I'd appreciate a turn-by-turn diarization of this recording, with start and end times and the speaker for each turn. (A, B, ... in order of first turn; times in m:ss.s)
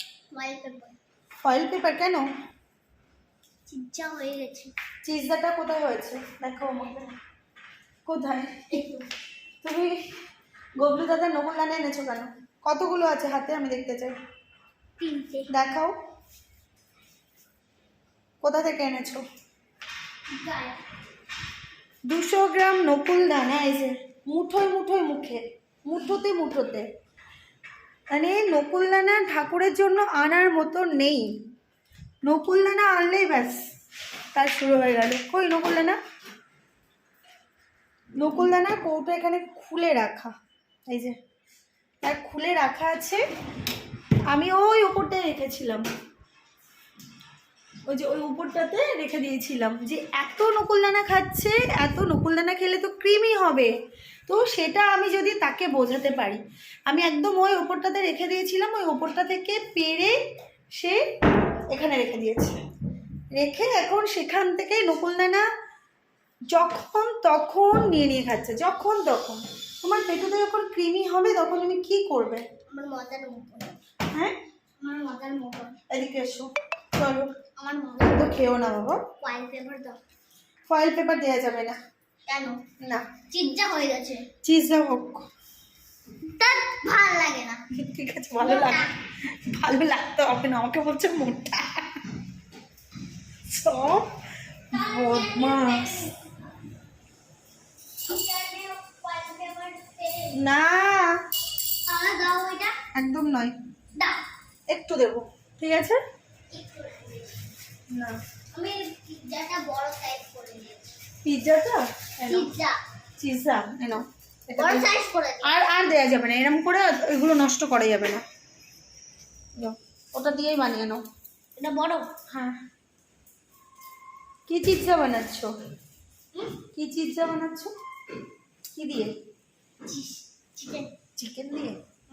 0:00.3-0:01.0 A
0:01.4-0:02.2 B
0:03.7-0:04.7 A
0:05.0-0:07.1 B
0:08.0-0:08.7 B
0:08.7-0:09.0 A
0:09.6-0:10.0 B
0:10.8-0:14.1 B
0:15.0-0:15.5 A
0:15.5-0:15.9 B
0:18.4-0:19.2 B
0:20.3-0:20.8 A
0:22.1-0:26.9 B
0:28.1-0:31.3 B
0:32.2-0:33.6 B
0:34.3-0:36.0 B
0:38.2-0:40.3 B
0:40.9-0:41.1 B
0:42.0-0:43.2 B
0:44.3-0:45.9 B
0:47.9-0:53.7 B
0:54.3-1:00.1 B
1:00.8-1:01.0 B
1:01.7-1:02.6 B
1:03.3-1:05.5 B
1:06.5-1:12.4 B
1:12.7-1:13.8 A
1:14.8-1:15.8 A
1:15.9-1:17.3 B
1:17.6-1:18.3 A
1:18.1-1:19.0 B
1:19.2-1:20.0 A
1:20.7-1:21.8 B
1:22.3-1:22.6 A
1:22.8-1:23.0 B
1:23.3-1:24.3 A
1:24.4-1:25.3 B
1:26.3-1:27.6 A
1:27.7-1:32.0 B
1:28.4-1:28.9 A
1:33.5-1:34.1 B
1:34.7-1:36.3 A
1:34.7-1:36.1 B
1:38.0-1:40.4 A
1:40.3-1:41.2 B
1:41.8-1:42.8 A
1:42.9-1:43.5 B
1:43.9-1:44.2 A
1:44.7-1:46.0 B
1:46.5-1:47.4 A
1:47.9-1:48.2 B
1:48.5-1:50.9 A
1:51.2-1:52.5 B
1:52.3-1:52.8 A
1:53.2-1:54.9 B
1:54.6-1:55.6 A
1:55.4-1:58.2 B
1:59.6-2:01.0 B
2:01.6-2:02.1 A
2:02.3-2:02.6 B
2:04.5-2:05.5 B
2:06.7-2:07.7 B
2:08.8-2:09.1 B
2:09.8-2:10.9 A
2:11.2-2:11.8 B